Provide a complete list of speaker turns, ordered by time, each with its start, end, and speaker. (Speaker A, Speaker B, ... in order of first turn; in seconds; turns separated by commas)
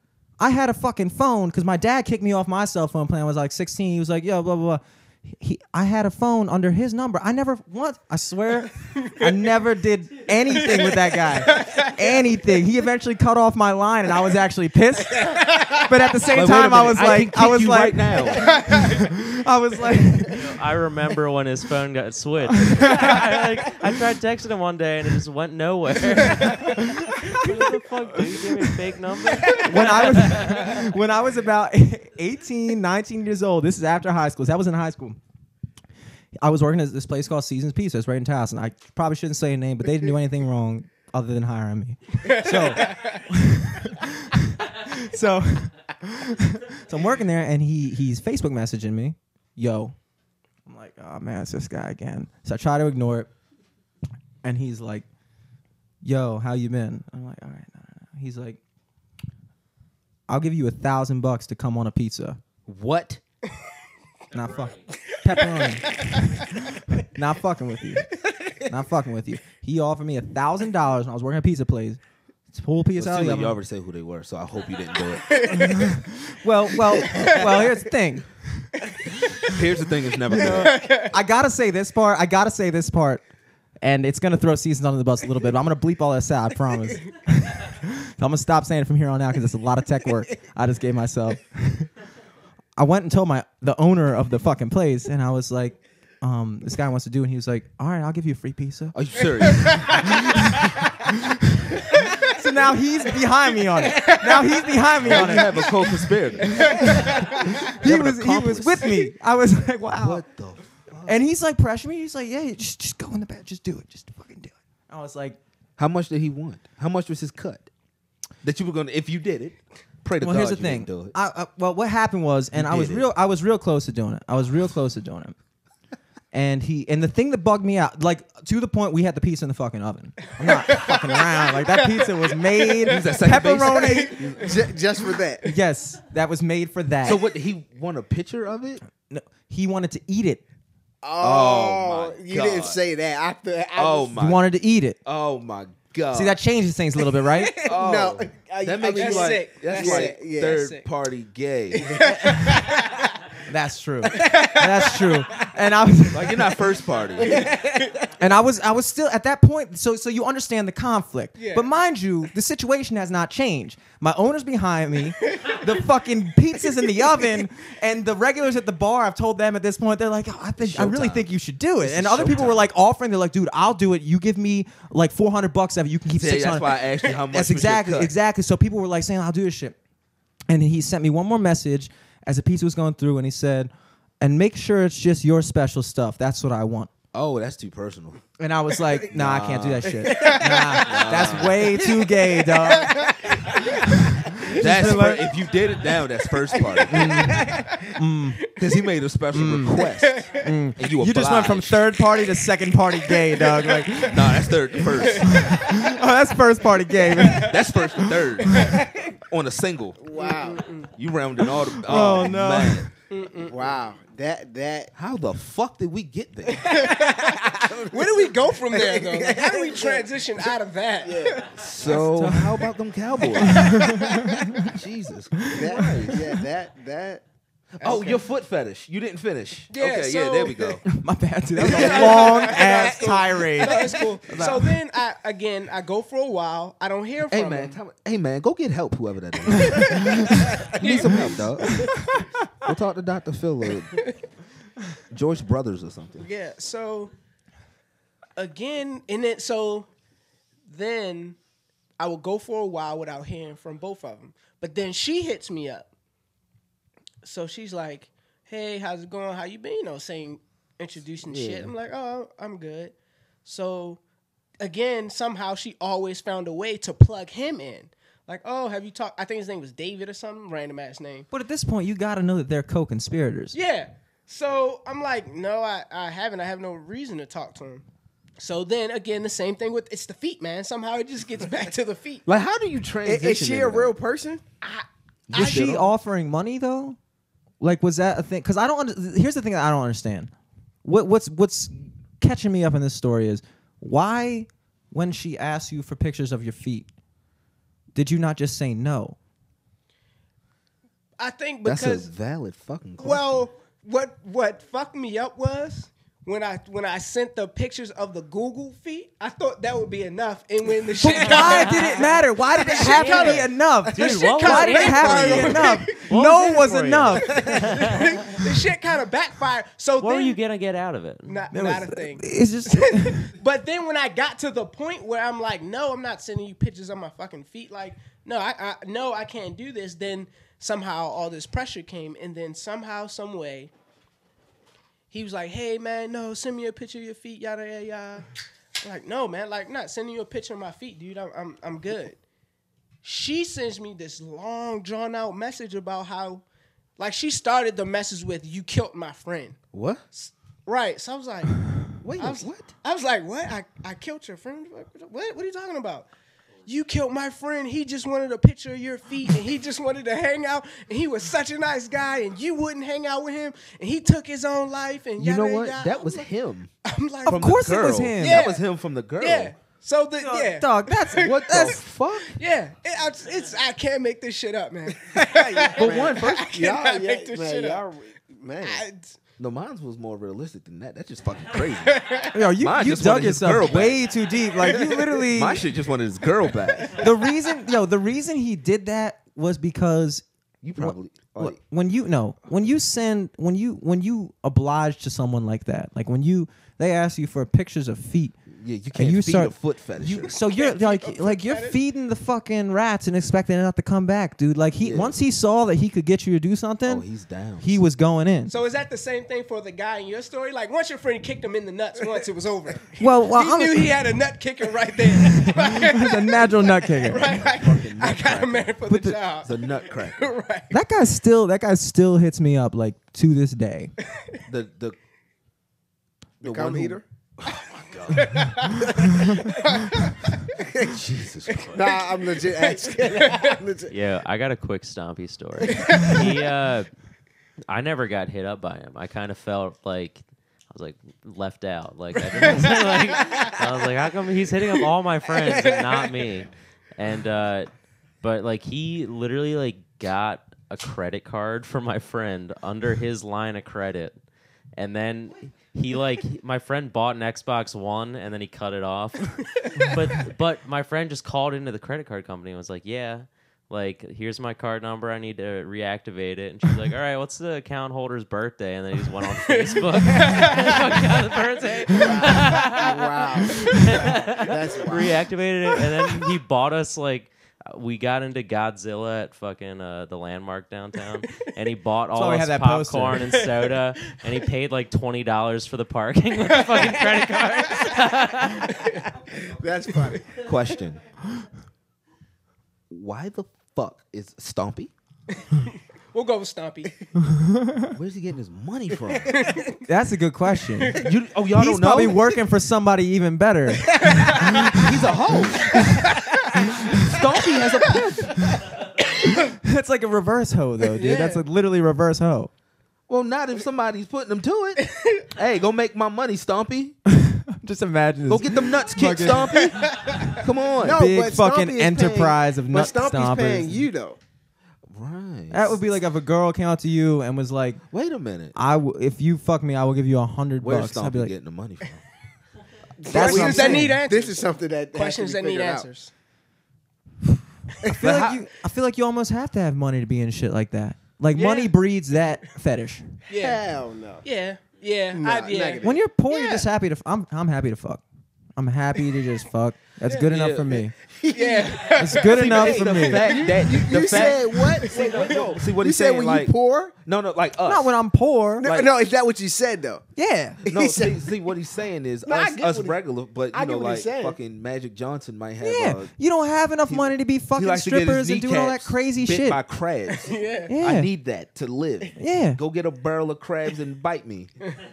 Speaker A: 0.4-20.5, Speaker B: 10.7-12.0, Speaker B: 15.6-15.9, Speaker C: 16.3-18.7, Speaker D: 20.3-30.8, Speaker A: 22.5-23.3, Speaker A: 26.4-27.7, Speaker A: 28.3-28.9, Speaker A: 29.5-35.2, Speaker A: 36.4-50.0, Speaker B: 42.2-43.2, Speaker A: 50.7-53.3, Speaker A: 54.4-55.1, Speaker A: 56.0-58.6, Speaker A: 60.3-62.4, Speaker C: 62.7-63.2, Speaker A: 64.3-72.0, Speaker D: 64.3-64.8, Speaker A: 72.5-73.6, Speaker C: 73.0-75.6, Speaker B: 75.2-76.0, Speaker A: 75.5-78.7, Speaker B: 77.0-77.5, Speaker C: 79.4-80.9, Speaker A: 80.3-83.2, Speaker B: 80.4-81.1, Speaker A: 83.8-91.9, Speaker A: 92.8-99.0, Speaker C: 98.9-100.8, Speaker A: 99.6-110.2, Speaker E: 104.0-104.4, Speaker C: 105.0-109.1, Speaker B: 106.6-107.2, Speaker C: 110.0-111.2, Speaker A: 111.1-115.4, Speaker C: 115.8-117.7, Speaker C: 118.4-121.2, Speaker A: 120.2-125.4, Speaker C: 122.5-123.1, Speaker A: 126.3-134.2, Speaker B: 130.5-130.9, Speaker B: 131.7-132.9, Speaker C: 132.9-134.7, Speaker B: 133.7-134.3, Speaker E: 134.4-135.5, Speaker A: 135.4-137.2, Speaker C: 137.0-138.8, Speaker A: 139.1-140.4, Speaker E: 141.0-144.2, Speaker C: 141.2-142.8, Speaker C: 143.8-144.5, Speaker A: 144.2-145.0, Speaker C: 145.1-146.4, Speaker A: 146.1-147.7, Speaker E: 147.2-150.6, Speaker C: 147.6-152.2, Speaker B: 149.0-150.9, Speaker B: 151.8-153.2, Speaker E: 151.9-152.9, Speaker A: 153.5-156.6, Speaker B: 154.1-155.1, Speaker E: 154.2-155.4, Speaker C: 156.1-157.5, Speaker E: 157.2-158.1, Speaker B: 157.6-157.9, Speaker A: 158.2-179.8, Speaker B: 161.4-161.7, Speaker C: 170.6-171.3, Speaker C: 171.8-172.7, Speaker C: 176.1-178.1, Speaker A: 180.5-186.9, Speaker C: 187.1-188.2, Speaker A: 188.4-193.1, Speaker C: 189.1-191.7, Speaker E: 190.1-191.3, Speaker B: 190.1-190.8, Speaker E: 192.7-193.8, Speaker B: 193.7-193.9, Speaker A: 193.9-195.4, Speaker C: 194.5-197.3, Speaker E: 196.5-197.9, Speaker A: 196.9-198.4, Speaker C: 198.6-202.0, Speaker A: 199.3-204.7, Speaker B: 199.9-200.4, Speaker B: 203.0-204.1, Speaker C: 204.1-205.5, Speaker B: 204.7-205.9, Speaker A: 205.2-208.1, Speaker B: 207.0-207.6, Speaker C: 207.3-210.0, Speaker B: 208.4-208.9, Speaker E: 210.0-210.7, Speaker B: 210.1-210.9, Speaker C: 210.9-212.9, Speaker A: 211.8-212.9, Speaker B: 213.1-213.6, Speaker E: 213.4-214.9, Speaker C: 215.0-216.8, Speaker B: 216.5-217.2, Speaker E: 216.7-220.5, Speaker B: 217.8-221.8, Speaker E: 221.1-221.5, Speaker C: 221.6-223.7, Speaker A: 221.9-222.7, Speaker A: 223.4-224.6, Speaker E: 223.8-224.4, Speaker C: 224.6-226.2, Speaker A: 225.4-226.1, Speaker E: 225.5-227.2, Speaker C: 227.8-230.9, Speaker B: 227.8-228.2, Speaker B: 229.7-230.8, Speaker A: 230.9-234.5, Speaker B: 231.6-237.8, Speaker C: 231.6-232.6, Speaker C: 234.3-234.7, Speaker C: 237.3-241.9, Speaker A: 239.6-240.6, Speaker B: 240.8-241.4, Speaker A: 241.6-242.3, Speaker C: 242.6-244.1, Speaker C: 245.1-246.3, Speaker B: 246.2-247.1, Speaker B: 248.4-249.9, Speaker B: 250.7-251.4, Speaker B: 252.0-255.9, Speaker B: 257.2-262.9, Speaker C: 261.3-261.7, Speaker B: 263.4-264.0, Speaker B: 264.6-271.3, Speaker A: 271.3-273.6, Speaker B: 273.5-277.8, Speaker B: 278.4-282.2, Speaker C: 282.3-283.9, Speaker E: 283.1-284.5, Speaker B: 284.6-285.5, Speaker C: 285.3-285.9, Speaker A: 285.3-287.0, Speaker A: 287.6-290.3, Speaker A: 290.8-296.9, Speaker A: 297.9-299.2, Speaker B: 301.2-302.1, Speaker C: 301.6-303.5, Speaker B: 303.0-316.1, Speaker A: 311.0-317.4, Speaker D: 311.3-312.0, Speaker D: 313.9-318.2, Speaker B: 317.3-320.4, Speaker E: 317.5-317.8, Speaker D: 320.0-321.5, Speaker B: 321.3-322.3, Speaker A: 321.5-323.3, Speaker B: 322.9-333.7, Speaker B: 335.1-338.3, Speaker B: 338.8-342.2, Speaker B: 343.0-346.4, Speaker B: 347.0-349.6, Speaker C: 349.7-350.0, Speaker B: 350.1-351.6, Speaker C: 352.0-352.7, Speaker B: 352.2-356.1, Speaker B: 356.7-366.2, Speaker C: 365.2-366.7, Speaker B: 366.9-367.6, Speaker A: 367.3-368.5, Speaker C: 367.3-369.5, Speaker B: 368.2-368.6, Speaker B: 369.2-377.8, Speaker A: 370.2-371.8, Speaker C: 371.2-372.4, Speaker E: 375.1-378.8, Speaker C: 375.8-376.5, Speaker B: 378.6-379.2, Speaker C: 379.4-384.0, Speaker B: 381.8-382.4, Speaker A: 382.3-385.7, Speaker B: 384.6-385.3, Speaker C: 385.3-387.0, Speaker B: 386.8-387.1, Speaker A: 386.9-390.2, Speaker C: 390.6-391.6, Speaker A: 390.8-398.4, Speaker C: 398.5-400.4, Speaker A: 398.9-407.1, Speaker B: 400.5-401.8, Speaker C: 404.8-405.2, Speaker C: 406.9-407.8, Speaker A: 407.6-408.5, Speaker B: 408.5-420.7, Speaker A: 413.0-413.9, Speaker A: 415.2-417.4, Speaker C: 417.1-418.8, Speaker A: 418.9-419.2, Speaker C: 419.4-420.3, Speaker A: 420.7-423.9, Speaker C: 424.5-425.0, Speaker E: 426.4-427.0, Speaker C: 426.4-428.5, Speaker B: 428.1-430.1, Speaker E: 430.5-430.9, Speaker C: 430.9-431.9, Speaker B: 431.6-431.9, Speaker E: 431.7-433.9, Speaker B: 433.2-433.6, Speaker D: 433.9-436.9, Speaker D: 437.7-447.7, Speaker B: 445.4-445.9, Speaker D: 448.2-454.2, Speaker D: 454.8-488.8, Speaker B: 469.5-470.8, Speaker E: 471.9-475.2, Speaker A: 482.1-483.3, Speaker B: 486.6-488.0, Speaker B: 488.6-489.1, Speaker E: 489.2-490.4, Speaker C: 490.4-491.0, Speaker C: 492.9-494.9, Speaker B: 495.5-496.9, Speaker A: 497.4-497.8, Speaker C: 497.9-499.4, Speaker B: 499.3-499.8, Speaker A: 499.9-504.9, Speaker C: 501.0-502.4, Speaker B: 504.0-504.9, Speaker C: 504.7-505.9, Speaker A: 505.7-506.0, Speaker B: 505.8-506.2, Speaker C: 506.9-508.6, Speaker A: 509.6-512.5, Speaker B: 510.9-511.4, Speaker C: 513.1-517.0, Speaker B: 514.9-515.3, Speaker A: 517.1-523.9, Speaker C: 518.3-521.1, Speaker B: 519.5-520.4, Speaker E: 520.8-524.2, Speaker C: 524.9-525.8, Speaker A: 525.5-527.8, Speaker C: 527.9-528.6, Speaker A: 528.5-531.3, Speaker C: 530.6-532.0, Speaker E: 533.0-535.9, Speaker A: 533.1-534.0, Speaker B: 533.1-536.1, Speaker C: 533.2-533.6, Speaker A: 537.3-543.1, Speaker C: 538.0-538.4, Speaker B: 541.3-541.7, Speaker E: 543.3-544.2, Speaker B: 543.3-543.6, Speaker B: 544.2-546.7, Speaker E: 545.1-546.0, Speaker A: 545.8-548.0, Speaker A: 548.6-550.9, Speaker C: 550.2-550.9, Speaker E: 551.2-551.9, Speaker B: 551.3-553.5, Speaker A: 552.0-553.3, Speaker C: 552.2-558.0, Speaker E: 553.0-557.0, Speaker B: 554.1-555.6, Speaker A: 557.6-558.7, Speaker E: 558.6-560.0, Speaker C: 558.6-558.9, Speaker A: 560.2-560.6, Speaker C: 560.6-566.1, Speaker E: 560.6-561.4, Speaker E: 562.3-563.0, Speaker E: 563.5-564.4, Speaker A: 565.6-569.6, Speaker C: 566.9-574.6, Speaker B: 570.1-570.7, Speaker A: 570.7-571.1, Speaker A: 572.2-572.6